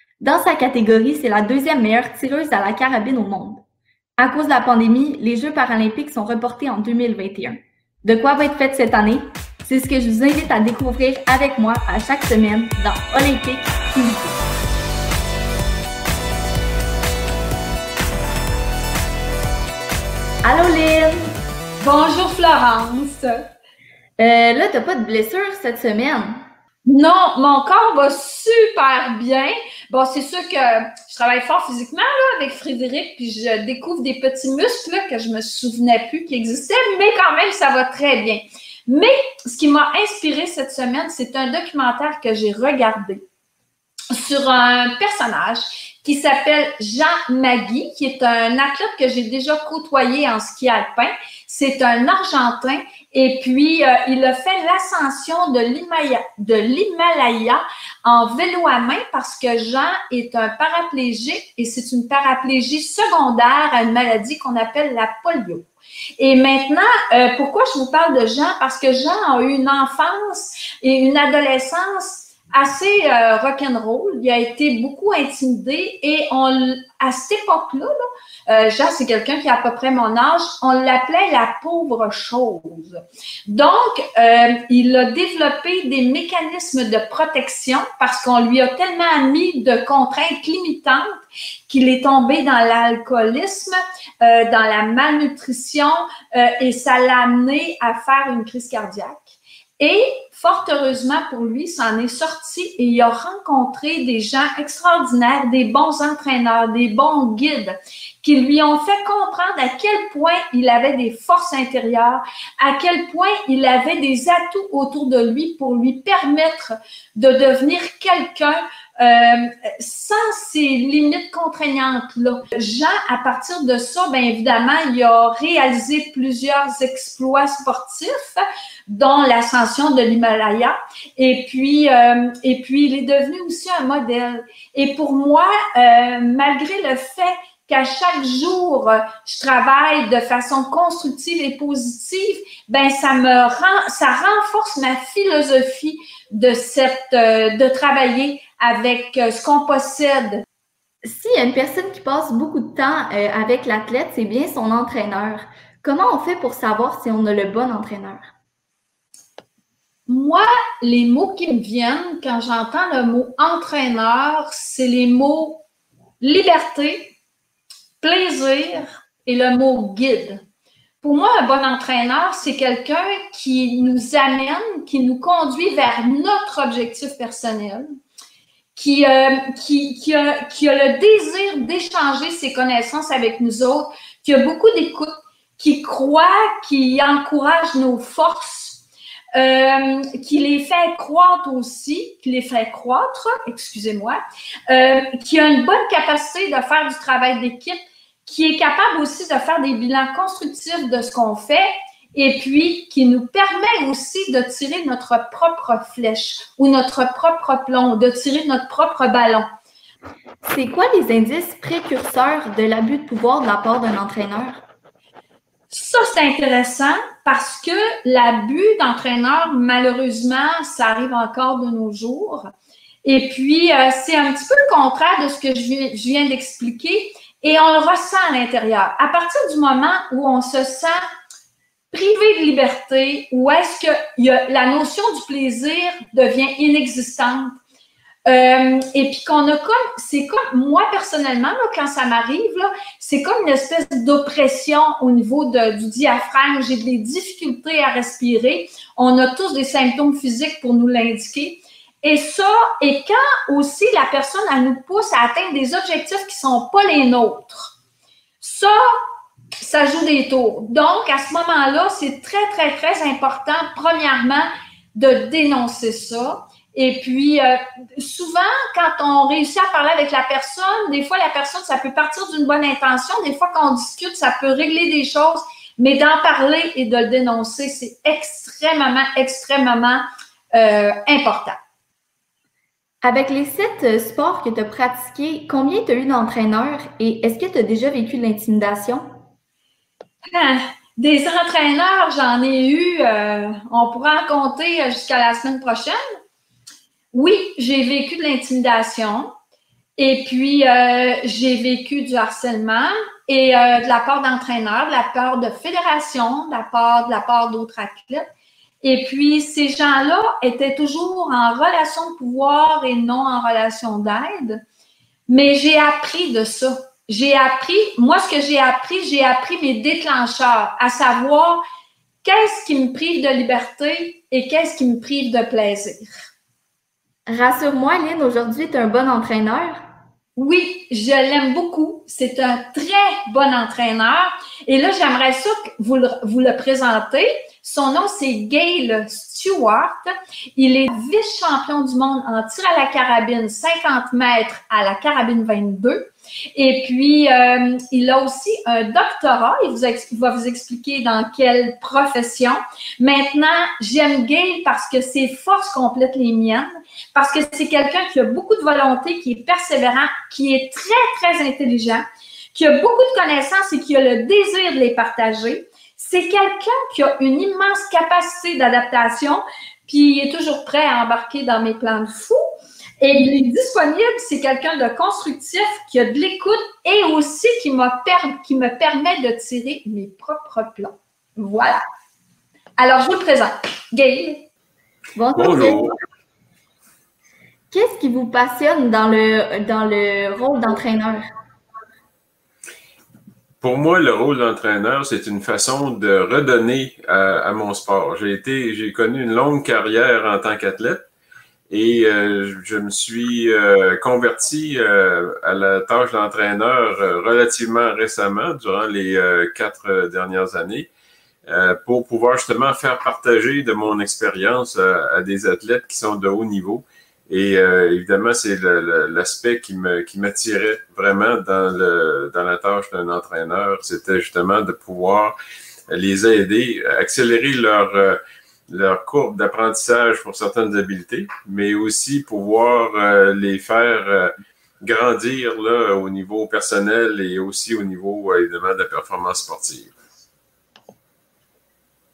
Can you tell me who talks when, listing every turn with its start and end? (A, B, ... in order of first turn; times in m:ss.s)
0:00.2-0:03.6 A
0:04.2-0:14.4 A
0:20.4-0:21.3 A
0:21.8-0:23.2 B
0:24.2-0:26.4 A
0:26.8-0:43.2 B
0:44.1-1:31.0 B
1:31.7-2:30.4 B
2:31.0-2:38.3 A
2:40.1-2:45.6 B
2:46.2-2:47.1 B
2:48.0-2:50.4 B
2:51.0-2:57.8 B
2:58.8-3:08.8 B
3:09.4-3:14.2 B
3:14.7-3:29.5 B
3:30.4-3:34.6 A
3:35.7-3:42.5 B
3:43.0-3:51.0 B
3:51.9-3:57.5 B
3:58.2-4:17.8 B
4:18.4-4:18.8 B
4:19.6-4:40.0 B
4:40.5-4:41.6 B
4:43.0-4:49.0 A
4:50.3-4:56.0 B
4:57.1-4:59.3 B
5:00.0-5:08.2 B
5:08.8-5:14.6 B
5:15.3-5:21.6 B
5:22.2-5:26.1 B
5:27.3-5:29.8 A
5:30.4-6:12.4 B
6:13.0-6:21.8 B
6:22.8-6:24.5 B
6:25.2-6:25.9 A
6:25.3-6:25.9 C
6:27.7-6:31.2 A
6:33.6-6:41.0 C
6:41.7-6:50.9 C
6:51.5-7:05.4 C
7:05.9-7:14.3 C
7:14.8-7:19.9 C